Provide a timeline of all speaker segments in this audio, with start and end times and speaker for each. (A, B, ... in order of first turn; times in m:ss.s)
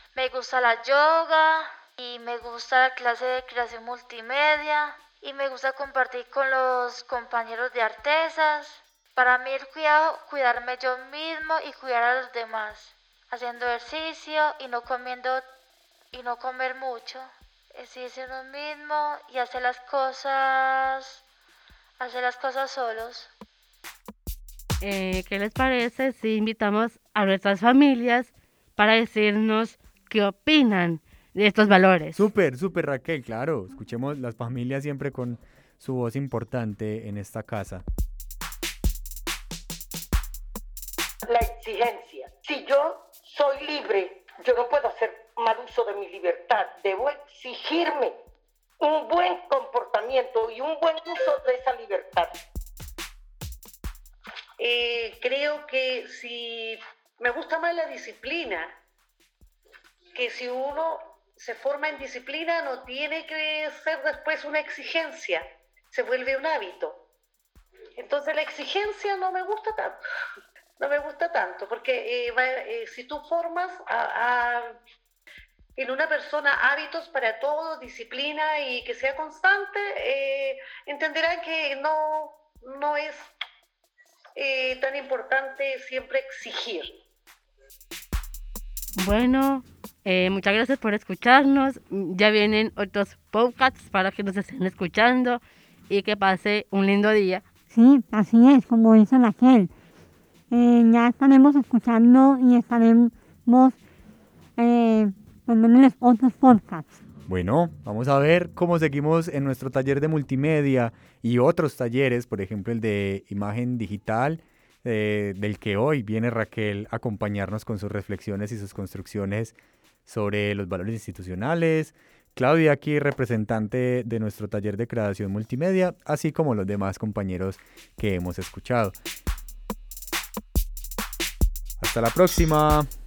0:00.1-0:15.4 A
0:16.1-0:21.2 A
0:22.0-0:23.3 A
0:24.8-0:32.2 B
0:32.1-0:37.8 C
0:41.2-0:48.2 D
0:48.8-0:52.3 D
0:54.6-0:58.7 E
1:00.1-1:07.0 E
1:08.0-1:10.0 E
1:10.8-1:14.7 E
1:15.8-1:23.3 E
1:24.4-1:27.0 E
1:29.0-1:37.4 B
1:37.7-1:39.7 F
1:40.5-1:43.8 F
1:44.6-1:47.0 F
1:47.3-1:59.5 C
2:00.0-2:08.9 C
2:11.8-2:12.9 C